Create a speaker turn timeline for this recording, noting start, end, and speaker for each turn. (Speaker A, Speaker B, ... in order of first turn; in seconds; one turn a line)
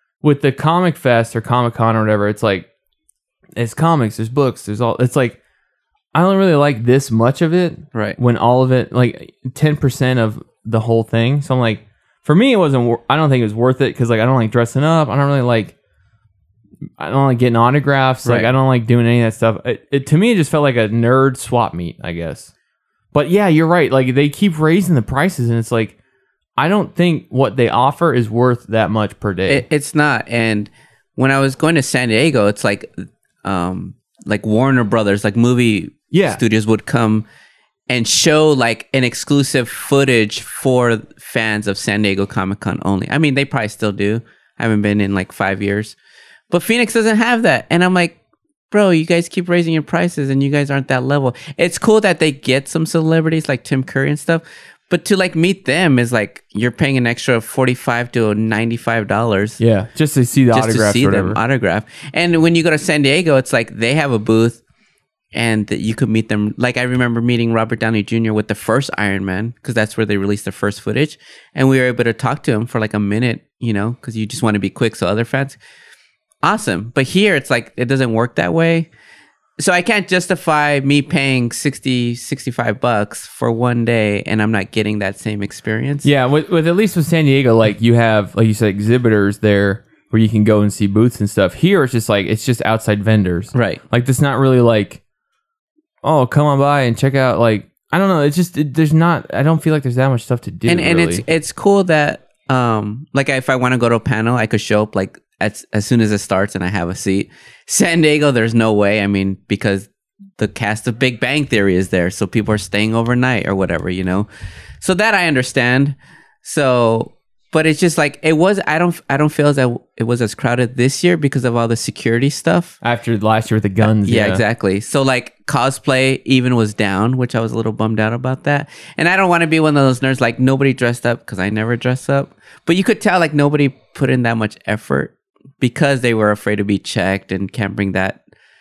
Speaker A: 0.2-2.7
Speaker A: 3.6-5.4
Speaker A: 6.1-15.7
Speaker A: 17.0-22.5
Speaker A: 23.1-25.9
Speaker A: 26.6-29.6
Speaker B: 29.5-37.2
Speaker A: 36.1-36.4
Speaker B: 37.9-46.0
Speaker B: 46.5-48.2
Speaker B: 48.7-59.6
Speaker A: 59.6-61.4
Speaker B: 60.5-64.6
Speaker B: 65.3-75.6
Speaker B: 76.4-78.9
Speaker B: 79.6-86.1
Speaker A: 86.0-95.0
Speaker B: 93.5-93.8
Speaker A: 96.0-101.2
Speaker B: 100.7-114.3
Speaker B: 114.8-122.8
Speaker A: 122.8-124.4
Speaker B: 124.0-138.2